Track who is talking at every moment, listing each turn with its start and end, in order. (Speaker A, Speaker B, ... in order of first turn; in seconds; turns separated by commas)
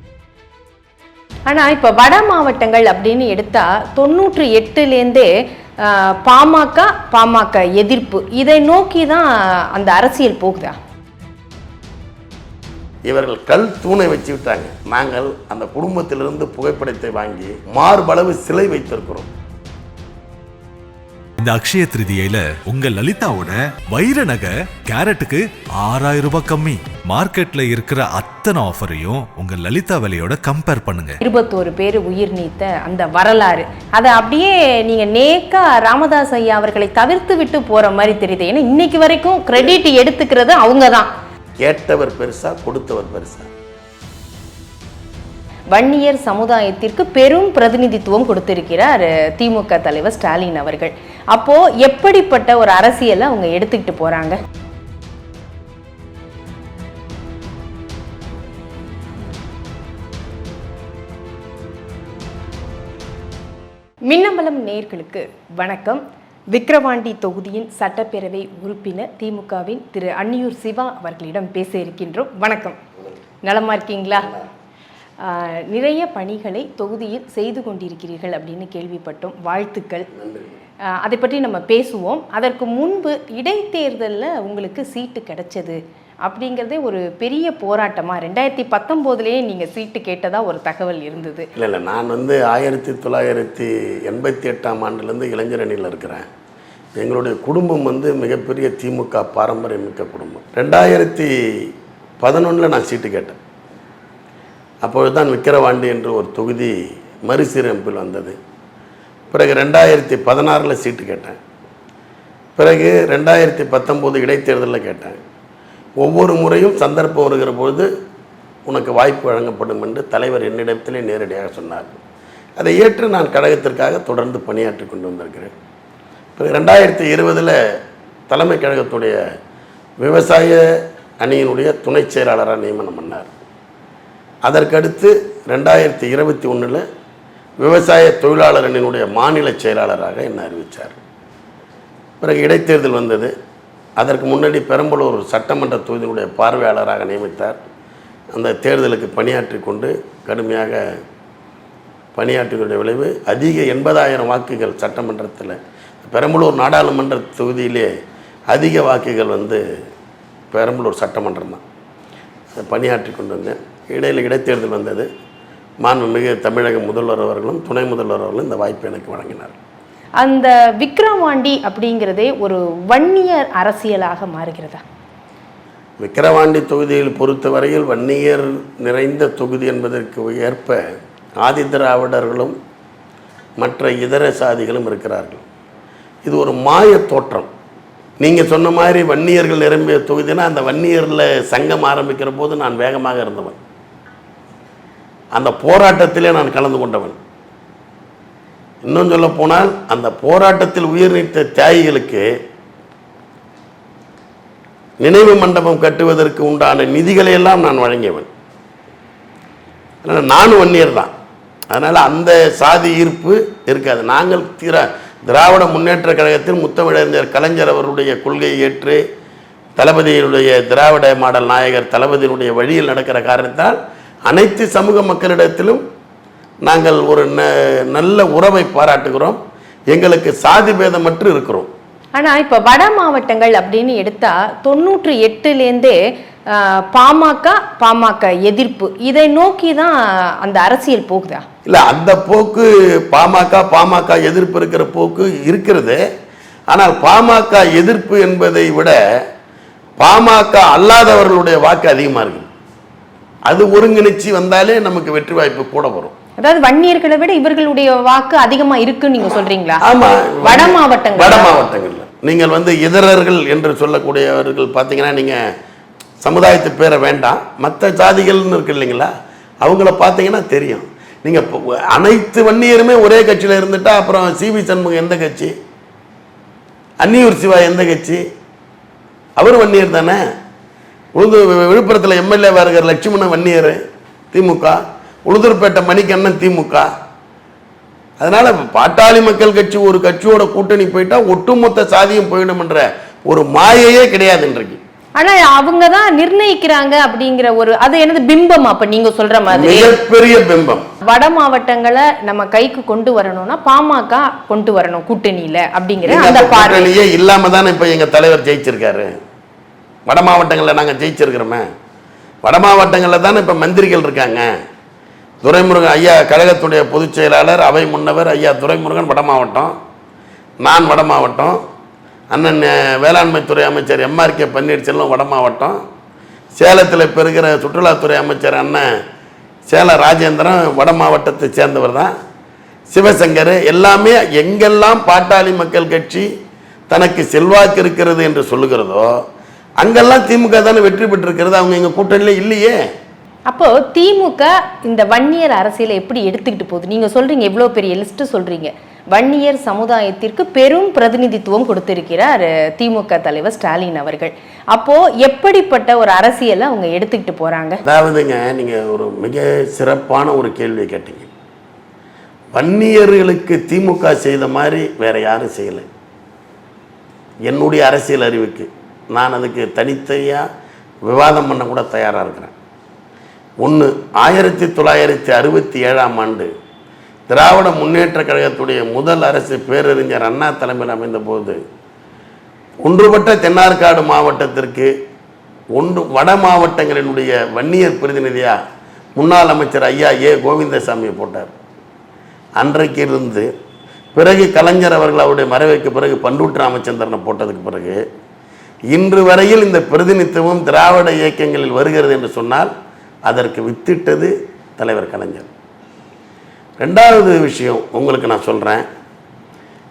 Speaker A: 1.5-10.8, Speaker B: 13.1-19.3, Speaker C: 21.4-31.2, Speaker A: 31.2-41.1, Speaker B: 41.6-43.5, Speaker A: 45.7-54.4, Speaker A: 64.1-72.8, Speaker A: 73.4-74.4, Speaker A: 75.2-80.1, Speaker A: 81.0-91.5, Speaker B: 91.6-96.3, Speaker B: 97.0-103.4, Speaker B: 104.8-108.4, Speaker B: 109.3-111.4, Speaker B: 112.6-115.2, Speaker B: 116.0-117.9, Speaker B: 118.7-122.0, Speaker B: 122.6-125.5, Speaker B: 126.4-127.6, Speaker B: 128.3-129.2, Speaker B: 130.0-130.6, Speaker B: 131.2-133.3, Speaker B: 134.4-136.8, Speaker B: 137.6-141.0, Speaker B: 142.2-143.3, Speaker B: 144.0-147.6, Speaker B: 148.3-150.9, Speaker B: 152.2-157.9, Speaker B: 158.5-159.6, Speaker B: 160.5-161.6, Speaker B: 162.6-165.1, Speaker B: 165.8-169.6, Speaker A: 170.2-174.8, Speaker B: 176.0-182.6, Speaker B: 183.6-185.4, Speaker B: 186.3-187.5, Speaker B: 188.2-193.6, Speaker B: 195.3-197.2, Speaker B: 198.8-202.3, Speaker B: 205.0-208.3, Speaker B: 210.0-211.1, Speaker B: 211.7-219.0, Speaker B: 219.8-225.8, Speaker B: 226.6-229.4, Speaker B: 229.9-231.7, Speaker A: 232.2-236.0, Speaker A: 236.5-241.4, Speaker B: 241.7-246.0, Speaker B: 246.7-249.0, Speaker B: 250.0-252.5, Speaker B: 253.5-256.1, Speaker A: 256.4-259.8, Speaker B: 259.8-265.4, Speaker A: 260.4-261.6, Speaker B: 266.2-269.1, Speaker B: 269.6-275.5, Speaker B: 277.0-278.2, Speaker B: 279.4-280.2, Speaker B: 281.2-283.8, Speaker B: 284.3-286.9, Speaker B: 288.2-294.8, Speaker A: 295.2-300.0, Speaker B: 299.5-300.9, Speaker A: 301.0-306.9, Speaker B: 306.0-309.2, Speaker B: 310.1-311.7, Speaker B: 312.4-314.5, Speaker B: 315.4-319.8, Speaker B: 320.6-321.6, Speaker B: 322.3-325.8, Speaker B: 326.6-328.9, Speaker B: 329.7-332.1, Speaker B: 332.9-336.3, Speaker B: 336.9-339.2, Speaker B: 339.8-342.8, Speaker A: 343.5-357.8, Speaker B: 357.8-361.3, Speaker B: 362.5-365.9, Speaker B: 367.4-370.5, Speaker B: 371.1-372.5, Speaker B: 373.6-376.5, Speaker B: 377.3-381.6, Speaker B: 382.8-384.9, Speaker B: 385.8-388.6, Speaker B: 389.2-391.6, Speaker B: 392.6-393.5, Speaker B: 394.1-398.0, Speaker B: 398.9-402.7, Speaker B: 403.3-405.5, Speaker B: 406.8-408.9